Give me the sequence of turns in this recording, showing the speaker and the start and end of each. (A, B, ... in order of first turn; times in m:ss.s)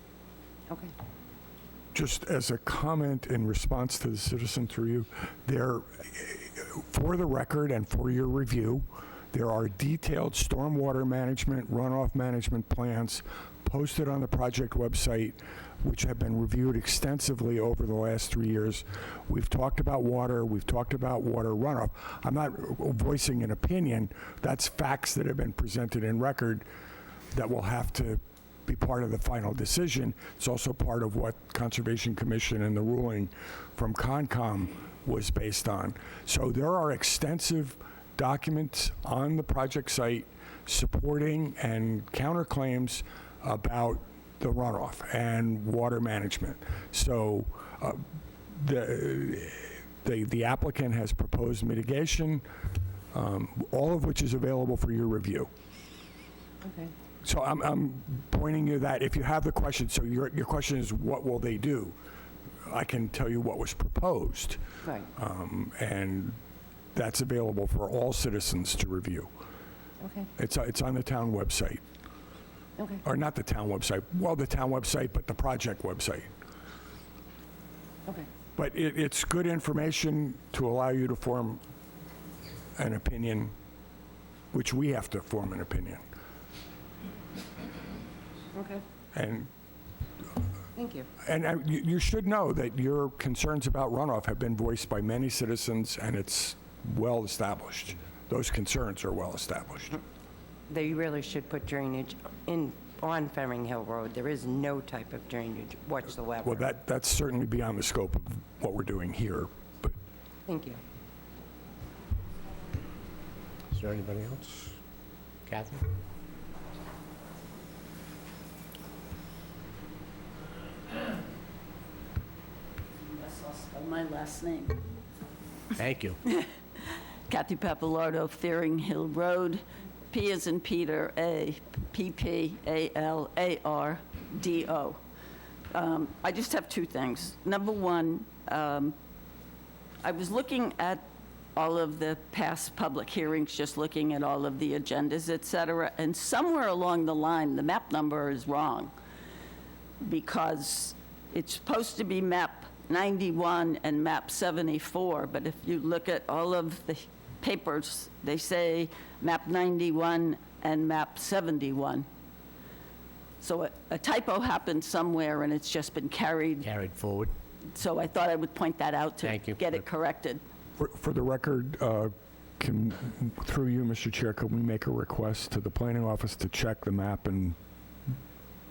0:01.9-0:26.7 A
0:27.3-0:48.0 A
0:48.6-0:52.5 A
0:53.1-0:55.5 A
0:56.6-0:56.9 B
0:57.2-1:02.0 A
1:02.6-1:04.6 A
1:04.8-1:05.1 B
1:05.2-1:06.4 A
1:07.0-1:09.3 A
1:10.0-1:10.3 B
1:10.4-1:11.8 A
1:13.0-1:16.3 A
1:18.6-1:21.6 A
1:22.8-1:23.5 A
1:24.5-1:26.0 A
1:28.6-1:28.8 B
1:29.1-1:29.5 A
1:30.8-1:31.1 B
1:31.2-1:40.0 A
1:40.7-1:46.7 B
1:46.4-1:49.9 A
1:50.5-1:50.8 B
1:53.7-1:54.8 C
1:55.5-1:55.8 C
2:03.0-2:04.8 D
2:05.8-2:06.2 C
2:06.3-2:15.0 D
2:15.7-2:19.0 D
2:20.0-2:21.0 D
2:21.6-2:28.9 D
2:30.0-2:42.1 D
2:43.4-2:46.7 D
2:46.6-2:47.3 C
2:47.7-2:50.4 D
2:49.2-2:49.8 C
2:50.8-2:57.6 A